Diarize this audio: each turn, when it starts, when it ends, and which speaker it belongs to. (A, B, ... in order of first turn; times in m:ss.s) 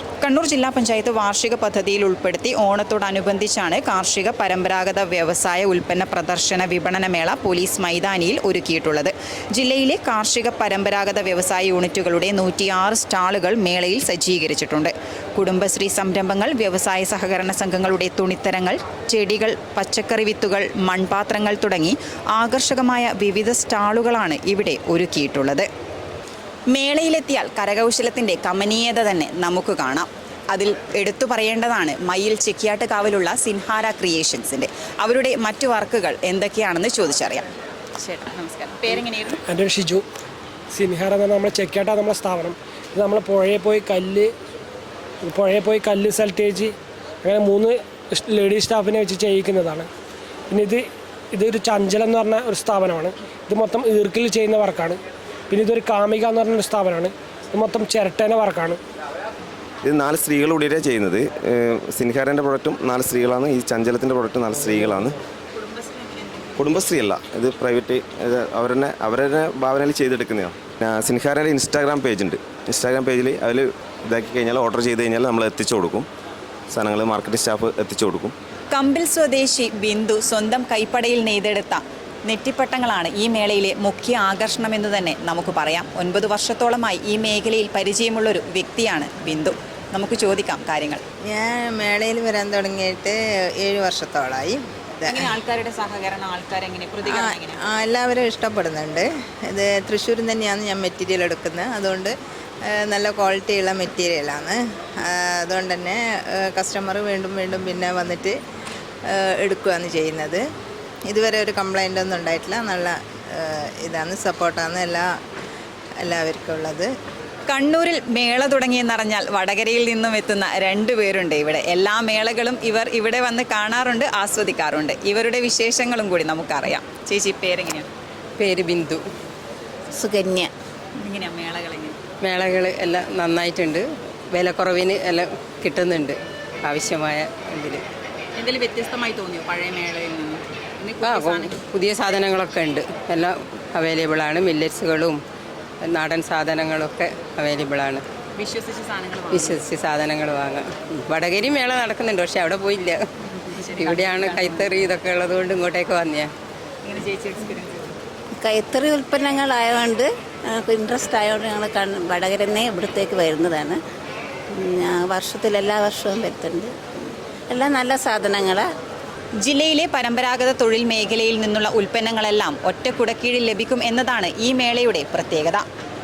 0:00.2-0:25.7 A
0:26.7-0:37.5 A
0:38.0-0:39.4 A
0:39.5-0:40.0 B
0:40.7-0:44.3 B
0:45.2-0:49.9 B
0:50.5-0:55.0 B
0:55.5-0:58.8 B
0:59.8-1:05.2 C
1:05.6-1:06.5 A
1:06.6-1:16.1 C
1:16.7-1:18.4 C
1:18.7-1:31.0 A
1:31.3-1:35.4 D
1:35.1-1:37.6 A
1:37.0-1:42.1 D
1:42.7-1:48.4 D
1:49.1-1:50.4 D
1:51.1-1:55.1 D
1:56.0-1:56.9 D
1:57.5-2:07.9 A
2:08.4-2:09.0 E
2:10.0-2:10.5 F
2:11.0-2:12.0 A
2:12.2-2:17.8 E
2:18.4-2:21.6 A
2:21.0-2:25.2 E
2:25.8-2:28.0 E
2:28.4-2:29.6 A
2:29.3-2:33.0 E
2:33.5-2:34.6 A
2:33.6-2:36.3 E
2:36.8-2:37.9 A
2:38.4-2:43.8 F
2:44.5-2:46.8 F
2:47.5-2:48.7 F
2:49.4-2:55.6 A